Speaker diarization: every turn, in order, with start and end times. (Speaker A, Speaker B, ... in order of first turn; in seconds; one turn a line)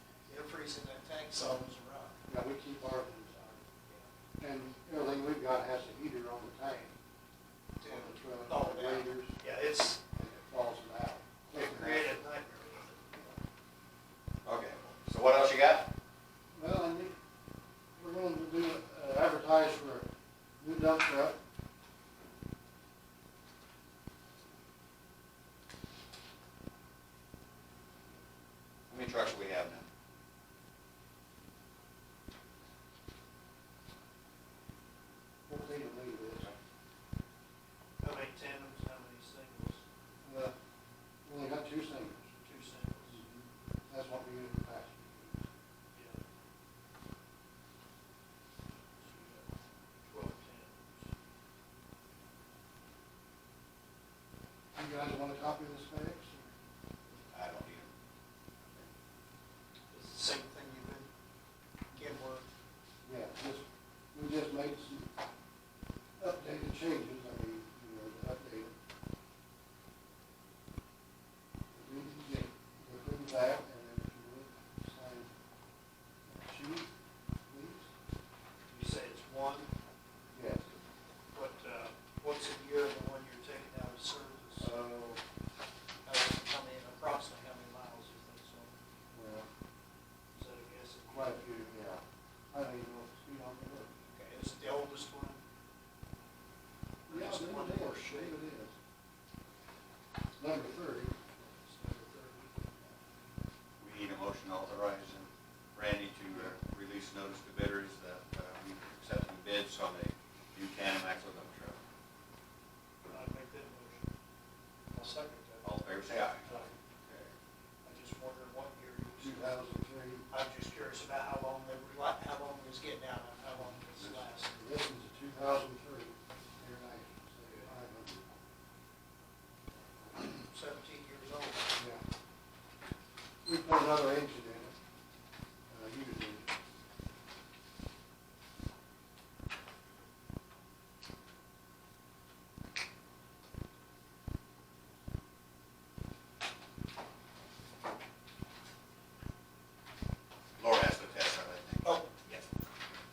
Speaker A: 0.3-2.2
Speaker B: 2.3-3.7
Speaker B: 4.4-7.0
Speaker A: 7.8-10.0
Speaker B: 7.8-9.4
Speaker B: 10.1-12.2
Speaker A: 11.5-13.4
Speaker C: 14.4-15.9
Speaker B: 16.5-17.1
Speaker B: 17.9-20.1
Speaker B: 20.6-21.4
Speaker C: 28.9-29.9
Speaker B: 35.5-36.5
Speaker A: 38.0-39.8
Speaker B: 40.2-40.5
Speaker B: 41.2-42.3
Speaker A: 42.4-43.2
Speaker B: 43.1-45.5
Speaker A: 45.9-46.2
Speaker A: 49.0-49.5
Speaker A: 50.1-51.1
Speaker B: 54.7-56.5
Speaker C: 57.3-57.9
Speaker A: 59.9-61.1
Speaker A: 61.9-62.5
Speaker B: 63.0-65.1
Speaker B: 66.2-68.7
Speaker B: 71.7-75.3
Speaker B: 76.3-76.9
Speaker B: 77.5-77.9
Speaker A: 78.7-79.7
Speaker B: 80.3-80.7
Speaker A: 81.3-84.7
Speaker B: 84.6-85.2
Speaker A: 86.0-88.7
Speaker B: 89.1-89.5
Speaker A: 90.3-91.5
Speaker B: 91.1-93.9
Speaker A: 94.1-95.4
Speaker A: 97.1-98.4
Speaker B: 97.1-98.8
Speaker B: 100.4-101.2
Speaker A: 101.4-102.5
Speaker C: 103.8-111.8
Speaker A: 113.1-114.1
Speaker A: 114.9-115.7
Speaker C: 115.6-116.4
Speaker A: 116.5-116.8
Speaker C: 117.1-117.3
Speaker A: 117.8-119.4
Speaker B: 119.2-120.3
Speaker A: 120.3-124.5
Speaker B: 123.5-128.3
Speaker A: 130.3-131.7
Speaker B: 131.8-132.0
Speaker B: 133.4-134.7
Speaker B: 135.7-136.5
Speaker C: 150.6-152.0
Speaker A: 151.8-152.4